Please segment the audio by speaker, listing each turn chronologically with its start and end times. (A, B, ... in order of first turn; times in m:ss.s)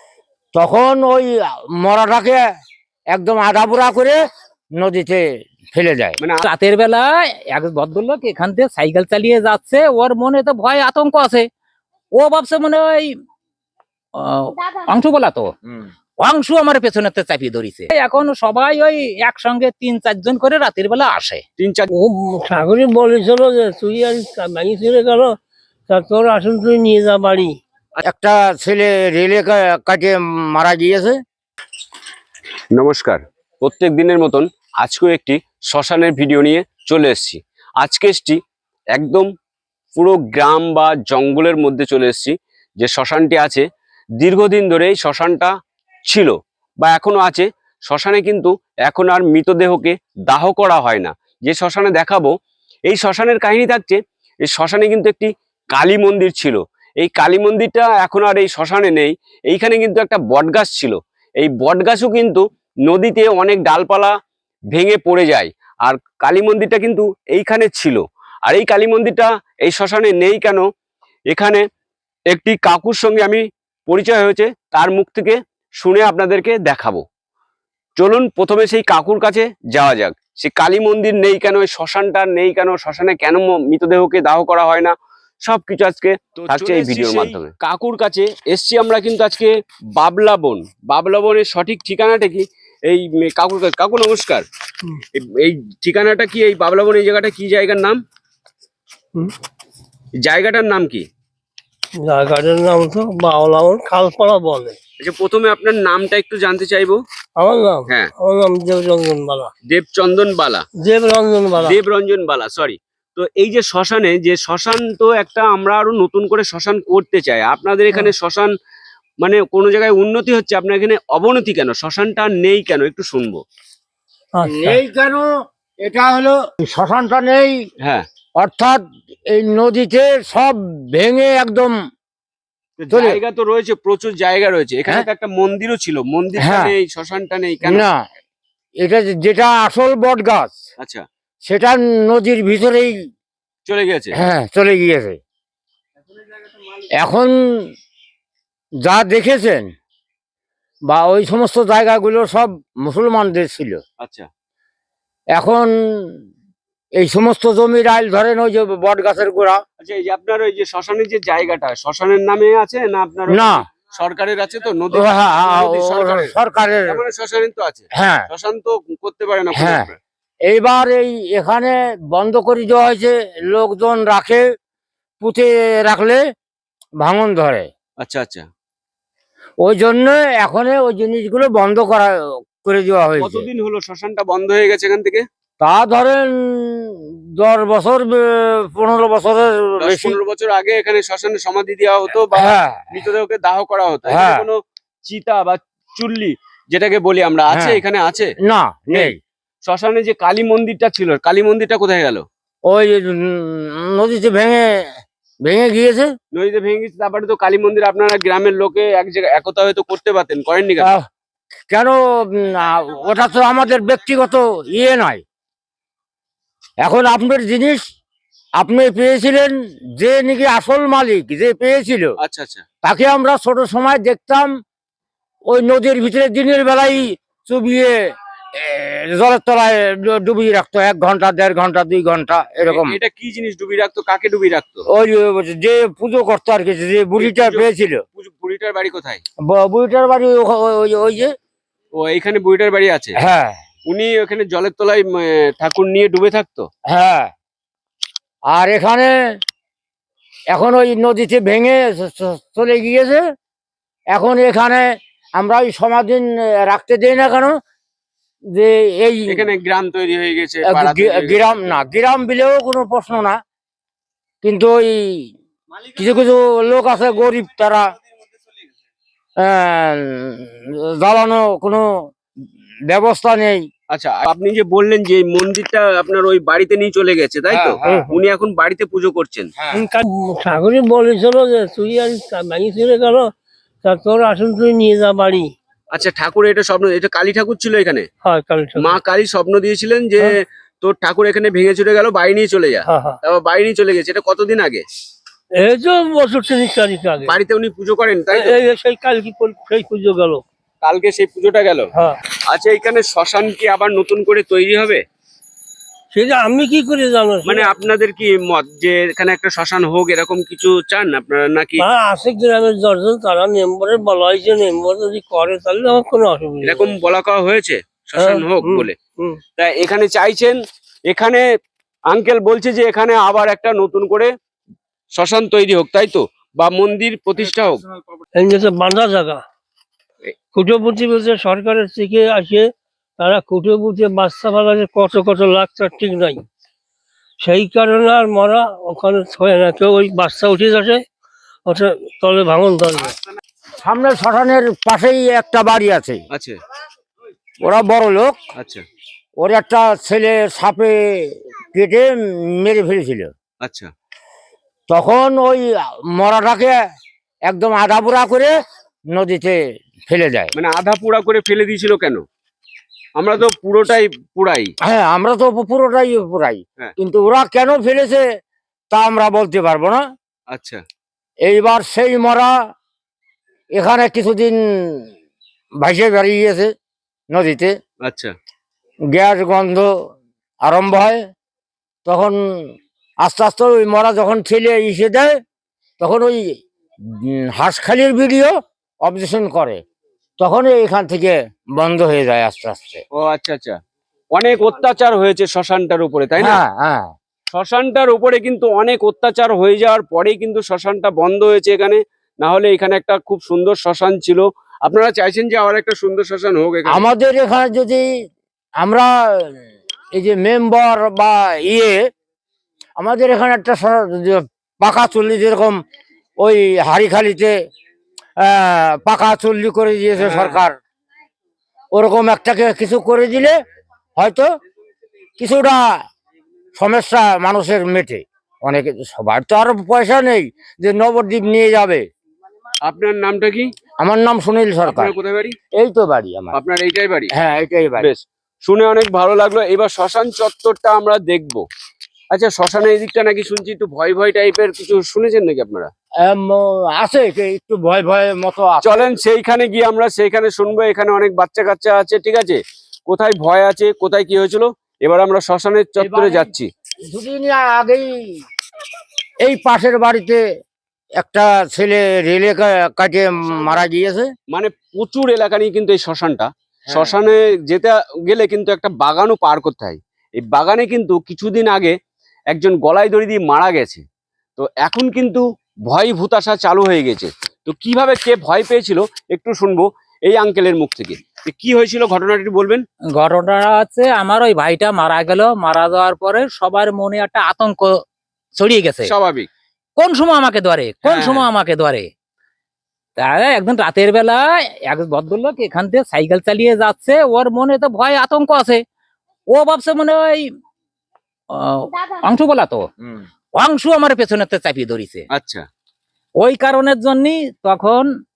0:00.5-0:02.4 A
0:03.1-0:04.2 A
0:04.8-0:06.2 A
0:06.2-0:06.5 B
0:06.6-0:11.4 C
0:12.2-0:13.1 C
0:14.2-0:15.4 C
0:16.2-0:21.4 C
0:21.6-0:21.8 B
0:21.9-0:25.3 D
0:25.9-0:27.6 D
0:28.0-0:31.2 A
0:32.7-0:38.4 B
0:38.9-0:39.3 B
0:40.0-0:43.6 B
0:44.2-0:45.5 B
0:46.1-0:52.3 B
0:52.9-1:04.1 B
1:04.7-1:10.6 B
1:11.3-1:11.6 B
1:12.3-1:17.0 B
1:18.0-1:24.9 B
1:25.4-1:34.4 B
1:35.1-1:38.0 B
1:40.2-1:41.0 B
1:42.0-1:44.8 D
1:45.0-1:47.0 B
1:47.4-1:49.5 D
1:49.7-1:50.6 B
1:50.8-1:51.8 D
1:51.6-1:58.5 B
1:59.2-2:03.4 B
2:04.4-2:04.8 D
2:04.4-2:05.3 A
2:05.8-2:07.6 A
2:08.4-2:08.8 A
2:09.3-2:11.7 A
2:12.8-2:17.8 B
2:12.9-2:13.2 A
2:16.4-2:16.7 A
2:17.6-2:18.0 A
2:18.8-2:20.6 A
2:20.8-2:21.0 B
2:21.4-2:22.9 A
2:23.6-2:24.1 B
2:24.1-2:25.2 A
2:27.0-2:27.6 A
2:28.8-2:29.7 A
2:30.9-2:33.8 A
2:34.0-2:34.3 B
2:35.4-2:36.2 A
2:37.0-2:39.6 A
2:39.8-2:46.3 B
2:43.3-2:43.6 A
2:44.9-2:47.0 A
2:46.8-2:50.0 B
2:47.9-2:48.3 A
2:49.5-2:49.9 A
2:50.5-2:54.4 A
2:55.2-2:56.2 A
2:57.0-2:57.7 A
2:58.0-2:58.4 B
2:59.6-3:03.4 A
3:03.2-3:05.2 B
3:05.6-3:10.2 A
3:09.8-3:18.3 B
3:12.3-3:12.9 A
3:14.1-3:14.4 A
3:17.5-3:17.8 A
3:18.4-3:19.2 A
3:19.6-3:22.2 B
3:22.7-3:24.6 A
3:25.4-3:26.1 A
3:26.3-3:30.9 B
3:31.7-3:35.2 A
3:36.8-3:37.8 A
3:38.6-3:42.1 A
3:42.2-3:42.6 B
3:42.8-3:44.5 A
3:45.5-3:48.0 A
3:48.6-3:53.0 A
3:52.6-3:54.8 B
3:54.9-3:58.0 A
3:57.2-3:59.2 B
3:59.5-4:01.3 A
4:01.9-4:03.2 B
4:03.2-4:03.6 A
4:03.9-4:06.7 B
4:06.9-4:07.3 A
4:08.5-4:09.1 A
4:10.5-4:13.2 A
4:14.1-4:14.8 A
4:15.4-4:17.5 A
4:18.5-4:19.4 A
4:19.3-4:21.6 B
4:20.6-4:23.4 A
4:24.4-4:25.2 A
4:25.9-4:27.9 A
4:29.4-4:31.9 A
4:32.9-4:33.6 A
4:33.9-4:39.5 B
4:37.5-4:38.0 A
4:37.8-4:38.2 D
4:39.7-4:43.3 D
4:43.8-4:45.5 D
4:45.9-4:48.1 B
4:48.2-4:49.0 D
4:48.8-4:50.3 B
4:50.8-4:54.8 B
4:52.9-4:53.2 D
4:55.6-4:57.4 D
4:57.2-4:58.6 B
4:58.3-5:00.4 D
5:00.8-5:01.9 B
5:01.9-5:02.2 D
5:02.5-5:05.0 B
5:06.1-5:07.7 D
5:07.4-5:11.8 B
5:11.8-5:16.9 D
5:16.6-5:19.0 B
5:18.2-5:19.4 D
5:19.6-5:20.6 B
5:21.1-5:21.4 B
5:22.1-5:24.3 B
5:25.2-5:27.8 B
5:28.4-5:29.4 D
5:30.5-5:32.7 D
5:33.2-5:36.4 D
5:37.4-5:41.0 D
5:41.6-5:43.2 D
5:43.8-5:46.2 A
5:46.3-5:46.6 B
5:47.6-5:48.4 A
5:48.6-5:48.8 B
5:49.4-5:53.3 A
5:53.6-5:53.9 B
5:54.9-5:55.6 A
5:56.2-5:56.7 A
5:57.5-5:58.5 A
5:59.1-5:59.6 A
6:00.1-6:00.5 A
6:00.6-6:02.2 B
6:03.2-6:04.7 B
6:04.8-6:08.2 A
6:08.9-6:10.0 A
6:10.5-6:10.8 B
6:11.4-6:12.5 A
6:13.8-6:15.0 A
6:15.8-6:16.7 A
6:17.3-6:17.7 A
6:18.0-6:18.3 B
6:19.1-6:19.9 A
6:20.6-6:21.3 A
6:22.0-6:22.4 A
6:23.2-6:25.3 A
6:26.0-6:26.4 A
6:27.2-6:28.5 A
6:29.0-6:29.8 A
6:30.4-6:33.0 A
6:33.2-6:33.8 B
6:34.3-6:36.6 B
6:36.4-6:37.1 A
6:37.5-6:47.1 B
6:46.9-6:48.0 A
6:48.8-6:49.5 A
6:50.1-6:52.0 A
6:53.0-6:55.8 A
6:56.4-6:57.5 A
6:58.4-7:00.8 A
7:00.2-7:00.6 B
7:01.9-7:03.6 A
7:04.2-7:04.5 A
7:05.4-7:05.8 A
7:06.7-7:12.0 A
7:12.8-7:13.7 B
7:14.0-7:15.1 A
7:14.8-7:15.5 B
7:15.8-7:16.5 A
7:16.5-7:17.3 B
7:17.3-7:18.1 A
7:18.0-7:21.6 B
7:22.3-7:25.9 B
7:26.3-7:29.1 A
7:28.8-7:36.7 B
7:36.0-7:36.5 A
7:37.1-7:38.1 A
7:39.4-7:40.4 A
7:41.2-7:44.3 A
7:44.5-7:51.9 B
7:46.9-7:47.2 A
7:52.5-7:54.0 B
7:54.6-8:02.8 B
8:03.2-8:08.0 C
8:08.6-8:09.1 C
8:09.0-8:09.5 B
8:10.0-8:12.1 C
8:11.0-8:11.5 B
8:13.2-8:14.4 C
8:14.9-8:18.8 C
8:19.5-8:20.4 C
8:21.5-8:22.8 C
8:23.6-8:25.2 C
8:25.3-8:25.6 B
8:26.4-8:28.0 C